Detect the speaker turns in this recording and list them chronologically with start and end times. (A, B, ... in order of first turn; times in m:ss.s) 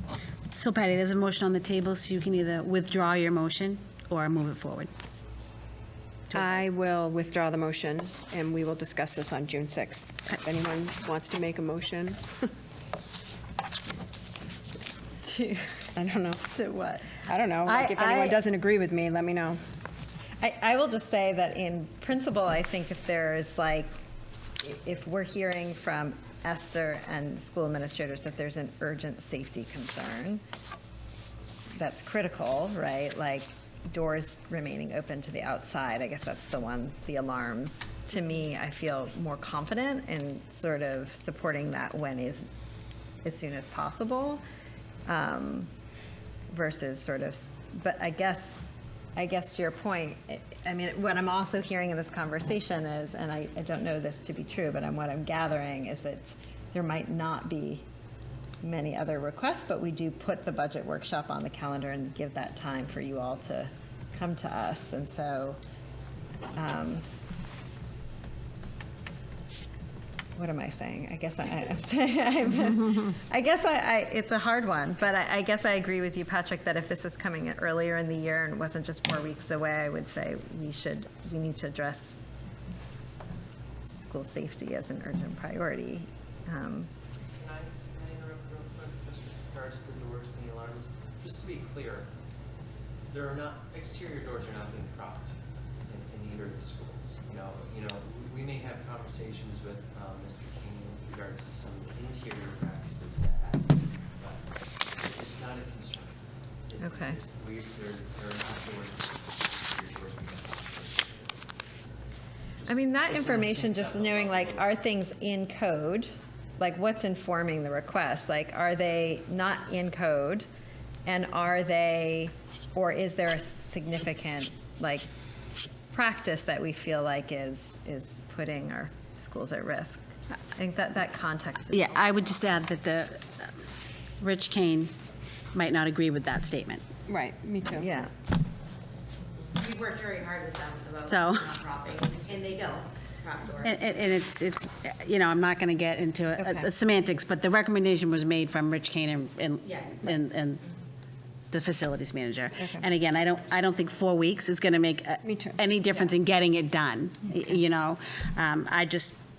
0:00.5-0:04.9 A
0:06.3-0:12.5 B
0:15.2-0:15.8 C
0:16.0-0:16.4 B
0:16.4-0:18.4 C
0:17.1-0:19.6 B
0:20.4-0:23.9 C
0:24.6-0:30.4 C
0:31.8-0:42.5 C
0:43.2-0:44.4 C
0:45.1-0:45.7 C
0:46.5-0:48.6 C
0:49.2-0:57.8 C
0:58.6-1:05.6 C
1:06.6-1:07.0 C
1:10.4-1:22.2 C
1:23.0-1:26.9 C
1:27.4-1:32.1 D
1:33.1-1:51.5 D
1:46.8-1:47.2 C
1:52.6-1:54.6 D
1:52.7-2:00.5 C
2:01.0-2:05.1 C
2:05.9-2:11.9 C
2:11.7-2:13.5 A
2:14.2-2:14.9 A
2:15.5-2:16.8 A
2:17.1-2:17.9 B
2:17.8-2:18.1 C
2:19.6-2:23.7 E
2:21.1-2:21.6 A
2:23.6-2:30.6 A
2:31.5-2:39.2 A
2:35.2-2:35.6 B